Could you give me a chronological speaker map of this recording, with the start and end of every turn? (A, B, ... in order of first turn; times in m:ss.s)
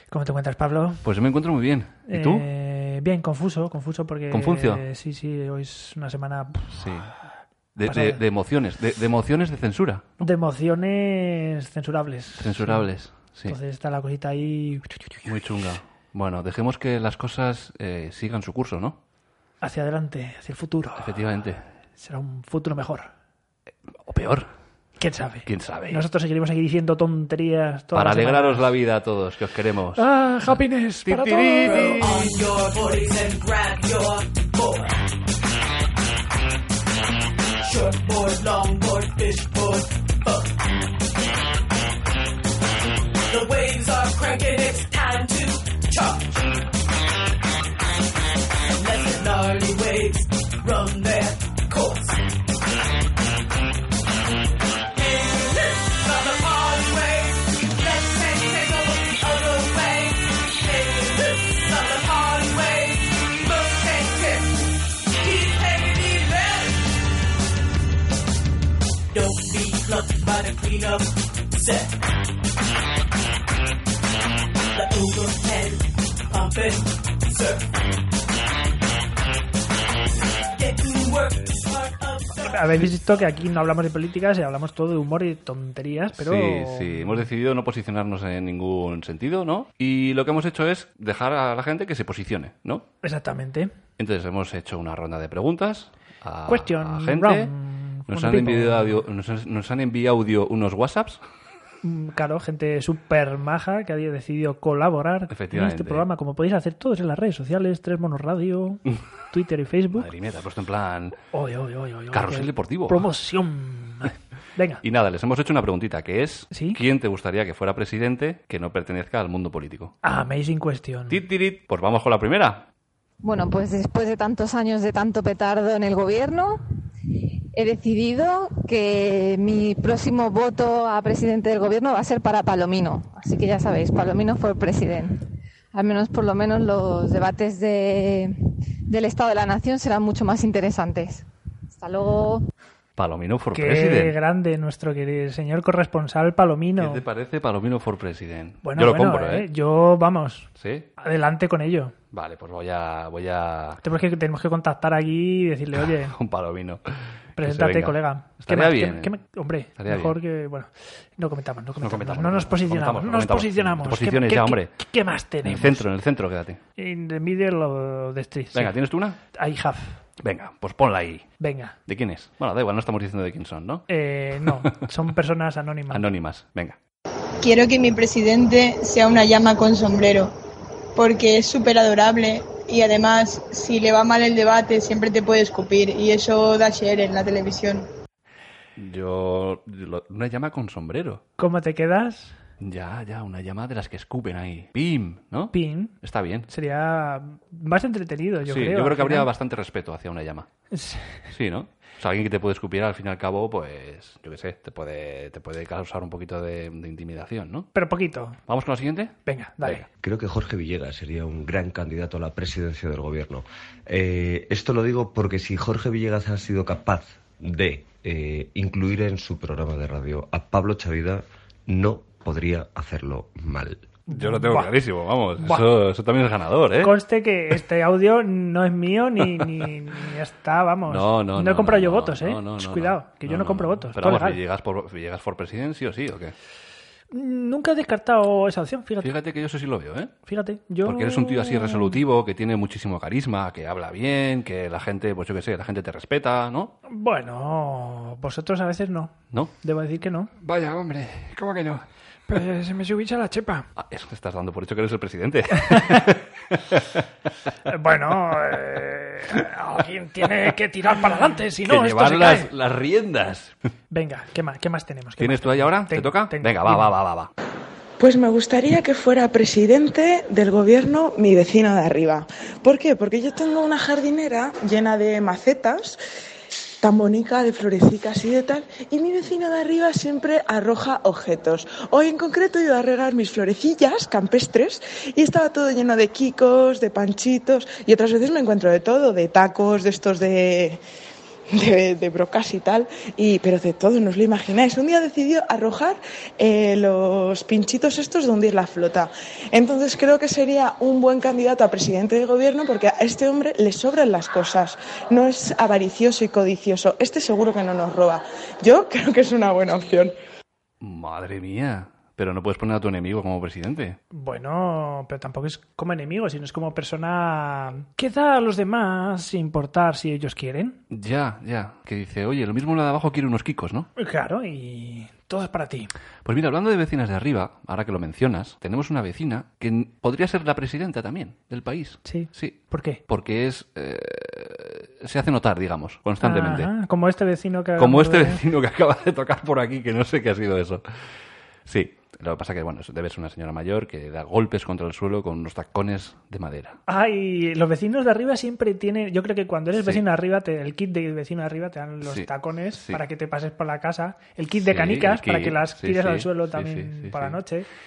0:00.1-0:01.0 A
0:01.0-0:02.4 B
0:02.1-0:07.2 A
0:04.3-0:04.8 B
0:06.8-0:07.1 B
0:07.8-0:10.1 B
0:07.9-0:08.2 A
0:10.2-0:12.9 A
0:12.4-0:13.6 B
0:13.5-0:14.8 A
0:15.2-0:19.0 B
0:19.6-0:21.2 A
0:21.0-0:21.7 B
0:22.0-0:23.1 A
0:24.0-0:24.5 B
0:25.0-0:28.7 A
0:25.5-0:26.0 B
0:27.9-0:30.0 B
0:30.0-0:32.1 A
0:31.0-0:32.2 B
0:31.6-0:35.0 C
0:37.6-0:40.8 C
0:43.3-0:46.7 C
0:48.7-0:52.2 C
0:54.9-1:04.6 C
1:05.2-1:06.9 C
1:09.1-1:12.0 C
1:14.7-1:17.7 C
1:20.6-1:22.7 C
1:22.4-1:27.3 A
1:26.2-1:32.9 B
1:33.0-1:33.7 A
1:34.0-1:37.5 B
1:36.5-1:39.0 A
1:38.1-1:41.2 B
1:41.8-1:50.1 A
1:45.3-1:46.0 B
1:50.0-1:51.2 B
1:51.3-1:54.8 A
1:52.1-1:53.0 B
1:54.8-1:59.9 B
1:56.5-1:56.8 A
2:00.0-2:01.2 A
2:01.1-2:02.7 B
2:03.2-2:06.6 D
2:07.5-2:22.4 D
2:23.0-2:24.2 B
2:23.5-2:27.0 A
2:26.8-2:29.5 B
2:28.6-2:30.5 A
2:30.6-2:30.9 B
2:31.0-2:31.9 A
2:32.1-2:33.8 B
2:33.8-2:36.1 A
2:35.8-2:36.8 B
2:37.4-2:39.1 B
2:37.4-2:45.9 A
2:39.8-2:40.2 B
2:41.8-2:44.7 B
2:45.4-2:46.6 B
2:46.8-2:48.8 A
2:48.5-2:49.2 B
2:49.3-2:50.0 A
2:50.2-2:51.3 B
2:51.4-2:51.8 A
2:51.9-2:53.9 B
2:53.9-2:56.1 A
2:55.9-2:56.8 B
2:57.4-3:00.3 E
3:01.0-3:07.9 E
3:08.8-3:11.2 B
3:11.4-3:12.4 A
3:12.6-3:16.5 B
3:15.5-3:16.0 A
3:16.5-3:19.3 A
3:18.5-3:20.5 B
3:20.7-3:21.3 A
3:21.3-3:27.7 B
3:27.7-3:28.4 A
3:28.5-3:29.8 B
3:29.3-3:29.8 A
3:30.0-3:43.8 F
3:44.1-3:44.7 A
3:44.1-3:47.0 B
3:45.4-3:45.7 A
3:46.8-3:54.4 A
3:50.9-3:56.3 B
3:57.1-3:59.1 A
3:59.0-4:00.1 B
4:00.3-4:02.0 A
4:00.8-4:06.8 B
4:06.9-4:10.3 A
4:10.4-4:11.8 B
4:12.3-4:13.7 A
4:13.8-4:17.0 B
4:17.7-4:22.5 A
4:21.7-4:23.6 B
4:23.9-4:26.9 A
4:25.2-4:27.3 B
4:28.0-4:36.0 G
4:36.8-4:50.8 G
4:51.5-5:10.1 G
5:10.8-5:14.0 B
5:14.1-5:20.8 A
5:20.9-5:23.9 B
5:24.0-5:25.9 A
5:26.2-5:36.7 B
5:32.0-5:33.0 A
5:36.2-5:38.4 A
5:37.8-5:40.8 B
5:41.7-5:46.8 B
5:46.9-5:57.7 A
5:52.0-5:53.0 B
5:54.6-5:57.4 B